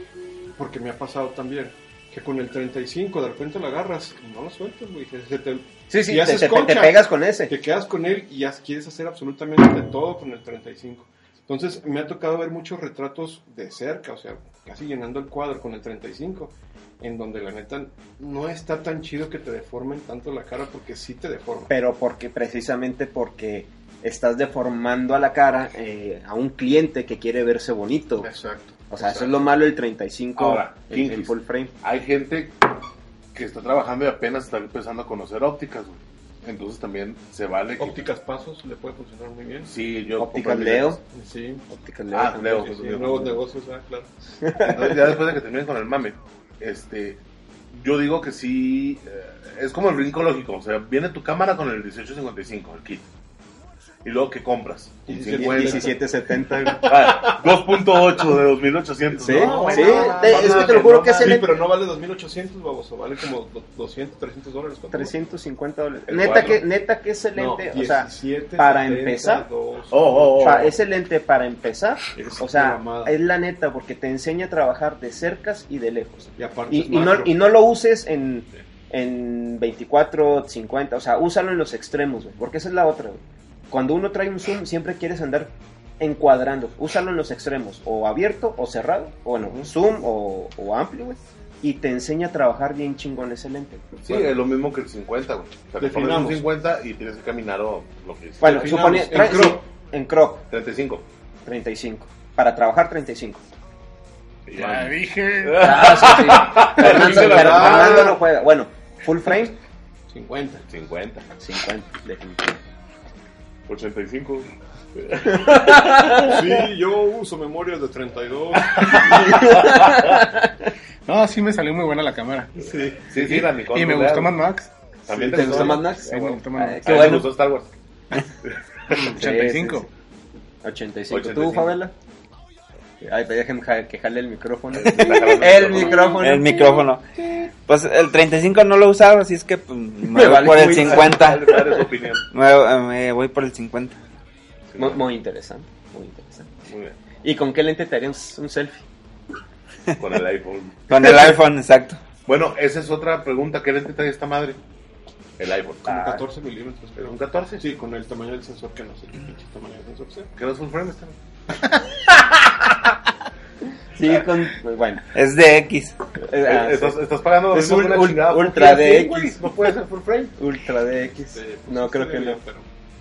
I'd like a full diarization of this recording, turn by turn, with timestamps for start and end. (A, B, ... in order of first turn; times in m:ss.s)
0:00.5-0:21.7 A
0:05.9-0:07.5 B
0:21.7-0:28.3 B
0:28.2-0:29.3 A
0:28.9-0:31.7 B
0:30.4-0:32.6 C
0:33.3-0:38.0 C
0:37.8-0:39.7 A
0:39.7-0:41.0 C
0:40.2-0:41.0 B
0:41.0-0:41.7 A
0:41.7-0:43.3 B
0:42.1-0:43.3 C
0:42.6-0:44.1 A
0:44.4-0:45.0 B
0:44.6-0:53.1 C
0:54.0-0:55.9 C
0:55.0-0:57.4 A
0:55.3-0:56.9 B
0:56.8-1:01.4 C
0:59.2-1:05.1 A
0:59.2-1:01.6 B
1:04.9-1:09.5 B
1:06.1-1:06.6 C
1:07.3-1:10.7 A
1:09.9-1:10.7 C
1:10.4-1:34.0 B
1:12.1-1:13.1 A
1:16.4-1:17.4 A
1:29.4-1:29.7 A
1:34.0-1:38.8 C
1:35.8-1:36.4 A
1:38.4-1:40.4 B
1:38.4-1:39.6 A
1:40.5-1:41.0 C
1:41.4-1:43.4 B
1:44.4-1:48.1 C
1:44.5-1:46.2 D
1:45.6-1:49.6 B
1:46.7-1:48.2 A
1:50.1-1:50.6 A
1:50.7-1:51.2 C
1:51.4-1:52.6 B
1:53.7-1:56.3 C
1:55.3-1:56.4 B
1:56.2-1:59.4 A
1:58.7-2:00.2 C
1:58.9-2:00.5 B
2:01.0-2:02.6 D
2:02.6-2:03.1 A
2:03.1-2:04.4 C
2:03.2-2:04.7 D
2:05.1-2:06.0 C
2:05.1-2:05.8 A
2:05.2-2:07.3 B
2:05.7-2:07.3 D
2:06.8-2:07.7 C
2:08.9-2:09.9 B
2:08.9-2:09.9 D
2:10.6-2:11.9 B
2:11.1-2:11.8 C
2:13.0-2:16.9 B
2:14.7-2:16.2 C
2:15.0-2:21.6 E
2:20.1-2:21.8 B
2:20.2-2:22.2 C
2:22.3-2:24.0 E
2:24.7-2:25.0 C
2:24.8-2:26.6 B
2:26.7-2:27.0 C
2:27.2-2:28.8 B
2:30.0-2:31.0 C
2:30.9-2:32.0 E
2:32.2-2:34.6 C
2:35.4-2:36.2 C
2:35.8-2:40.3 A
2:37.0-2:37.6 C
2:40.4-2:41.2 C
2:43.9-2:45.1 B
2:45.1-2:46.0 E
2:46.2-2:47.0 B
2:46.4-2:50.3 C
2:47.5-2:49.4 B
2:50.4-2:52.4 B
2:51.3-2:52.7 A